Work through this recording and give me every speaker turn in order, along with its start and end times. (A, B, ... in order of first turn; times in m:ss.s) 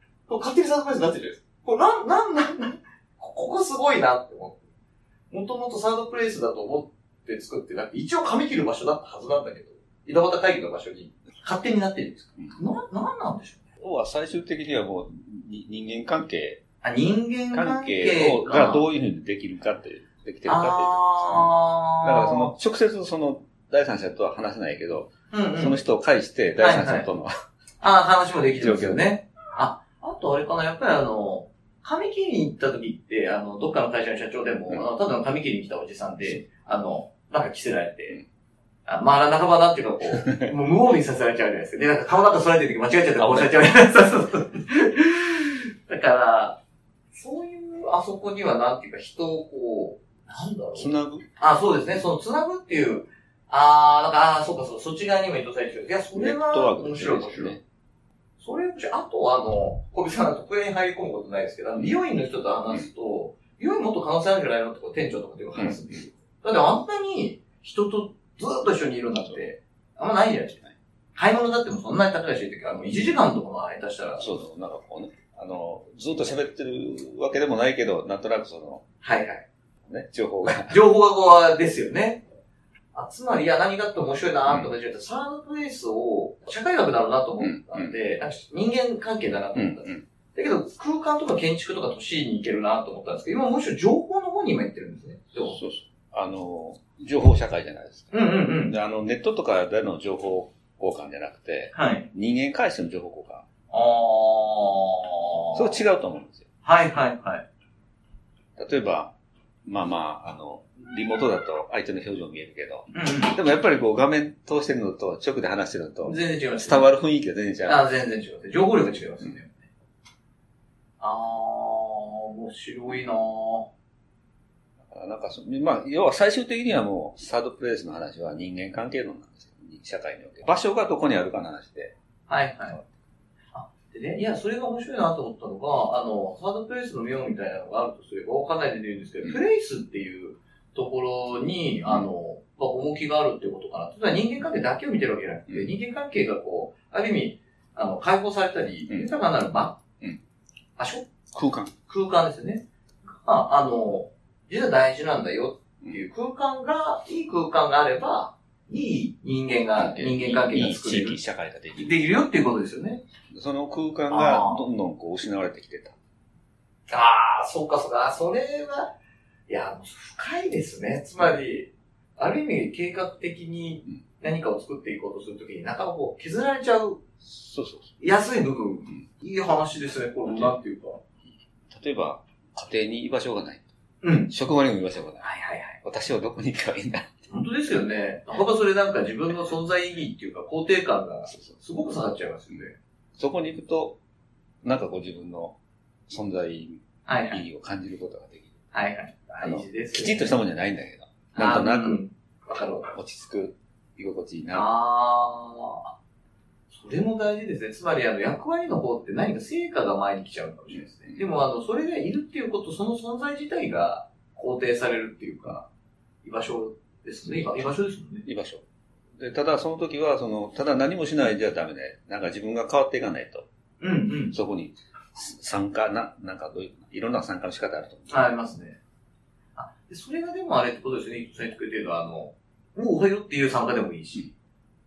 0:00.3-0:04.6 A
0:05.3-0:13.6 A
0:13.8-0:16.6 B
0:16.8-0:18.8 A
0:17.5-0:27.3 B
0:20.5-0:22.5 A
0:25.3-0:25.8 A
0:26.6-0:27.1 A
0:27.8-0:38.2 A
0:28.6-0:29.0 B
0:38.9-0:46.6 A
0:43.2-0:43.6 B
0:47.1-0:50.9 A
0:50.8-0:51.3 B
0:51.4-0:57.6 A
0:56.1-0:57.6 B
0:58.4-1:10.6 A
1:05.6-1:05.9 B
1:11.2-1:14.2 A
1:14.2-1:18.8 B
1:19.0-1:19.4 A
1:19.8-1:20.8 B
1:20.7-1:22.2 A
1:23.0-1:35.6 A
1:27.4-1:27.9 B
1:29.5-1:30.0 B
1:35.5-1:38.1 B
1:38.1-1:38.8 A
1:38.7-1:43.5 B
1:41.7-1:42.1 A
1:43.7-1:45.8 A
1:45.5-1:46.4 B
1:46.6-1:47.4 A
1:48.6-1:49.1 B
1:49.6-1:57.8 B
1:52.9-1:53.4 A
1:56.0-1:56.9 A
1:57.7-1:59.7 A
2:01.0-2:03.7 A
2:04.9-2:11.9 B
2:12.3-2:12.8 A
2:13.5-2:29.8 A
2:30.8-2:31.1 A
2:31.3-2:31.7 B
2:31.9-2:41.2 A
2:39.8-2:42.0 B
2:41.8-2:43.0 A
2:43.3-2:46.0 B
2:44.1-2:44.6 A
2:46.9-2:48.9 A
2:49.5-2:57.0 A
2:57.2-2:58.0 B
2:58.0-3:01.0 A
3:00.3-3:00.6 B
3:01.7-3:03.7 B
3:04.0-3:04.3 A
3:04.3-3:05.3 B
3:05.2-3:05.8 A
3:05.8-3:07.2 B
3:07.3-3:12.8 A
3:13.2-3:14.0 B
3:14.6-3:15.6 B
3:16.1-3:18.6 B
3:17.1-3:17.4 A
3:18.7-3:20.4 A
3:19.4-3:22.0 B
3:21.4-3:22.9 A
3:22.9-3:24.7 B
3:24.5-3:25.9 A
3:26.7-3:35.7 A
3:36.2-3:38.2 A
3:38.2-3:38.6 B
3:39.2-3:43.5 B
3:43.8-3:44.4 A
3:44.3-3:48.3 B
3:48.1-3:48.8 A
3:49.6-3:54.3 A